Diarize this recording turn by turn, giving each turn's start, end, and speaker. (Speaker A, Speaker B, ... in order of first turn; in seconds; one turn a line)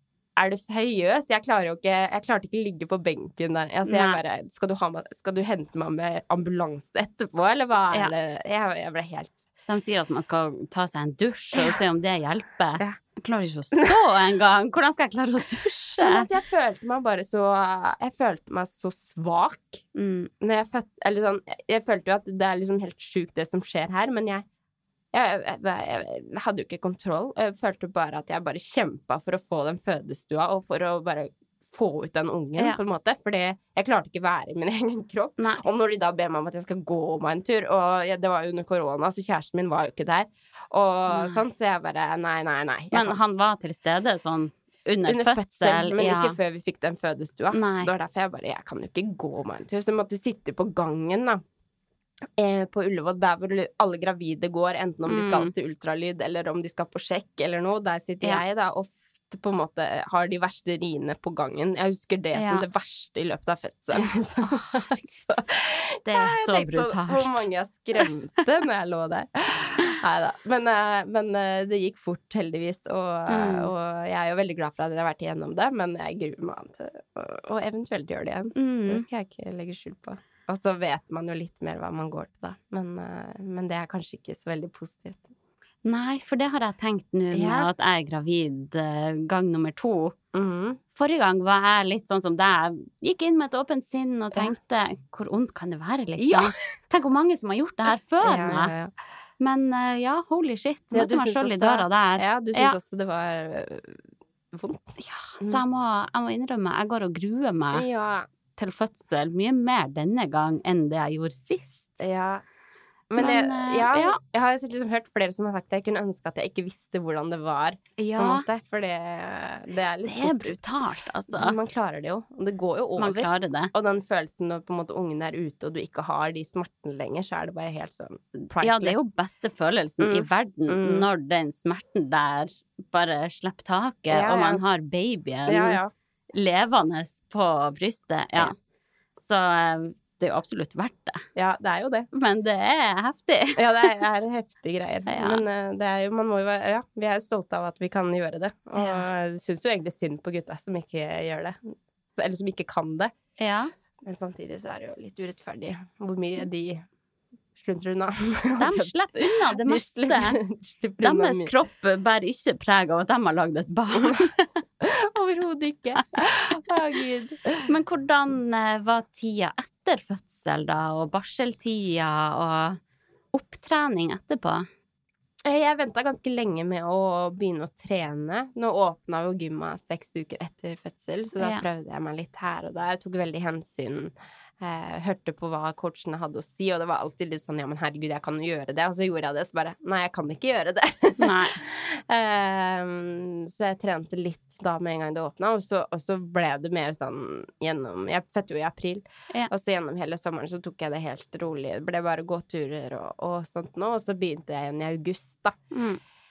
Speaker A: 0.4-9.5
Speaker B: 3.9-4.2
Speaker B: 9.7-16.3
Speaker A: 16.0-19.9
Speaker B: 19.9-20.3
Speaker A: 20.4-24.4
Speaker A: 25.1-43.2
Speaker B: 35.4-35.6
Speaker B: 41.1-41.4
Speaker B: 42.9-46.4
Speaker A: 45.1-51.4
Speaker B: 47.5-47.9
Speaker A: 52.4-85.3
Speaker B: 55.1-55.5
Speaker B: 62.4-62.7
Speaker B: 64.0-64.9
Speaker B: 66.1-67.3
Speaker B: 73.3-73.7
Speaker B: 78.5-79.0
Speaker B: 85.8-90.2
Speaker A: 87.3-87.7
Speaker A: 90.3-90.8
Speaker B: 91.0-98.7
Speaker A: 96.2-96.5
Speaker A: 98.2-98.9
Speaker B: 99.4-102.8
Speaker A: 100.9-104.0
Speaker A: 104.5-105.6
Speaker B: 105.0-107.9
Speaker A: 107.7-108.3
Speaker B: 108.6-112.0
Speaker A: 112.0-112.4
Speaker A: 113.1-120.6
Speaker B: 113.2-114.2
Speaker B: 118.0-118.5
Speaker B: 120.0-121.6
Speaker A: 121.3-129.0
Speaker B: 123.0-123.7
Speaker B: 128.6-135.8
Speaker A: 130.0-131.1
Speaker A: 134.1-134.6
Speaker A: 135.5-135.9
Speaker B: 136.3-138.6
Speaker B: 139.2-141.2
Speaker A: 141.4-142.1
Speaker B: 142.1-143.9
Speaker A: 143.6-153.1
Speaker B: 145.1-145.4
Speaker B: 148.8-149.1
Speaker B: 153.4-153.7
Speaker A: 154.0-156.8
Speaker A: 157.6-161.5
Speaker B: 158.6-160.4
Speaker B: 161.0-164.5
Speaker A: 164.8-167.7
Speaker B: 167.7-172.8
Speaker B: 173.3-174.7
Speaker A: 175.4-205.6
Speaker B: 181.4-181.6
Speaker B: 191.2-191.6
Speaker B: 205.7-206.0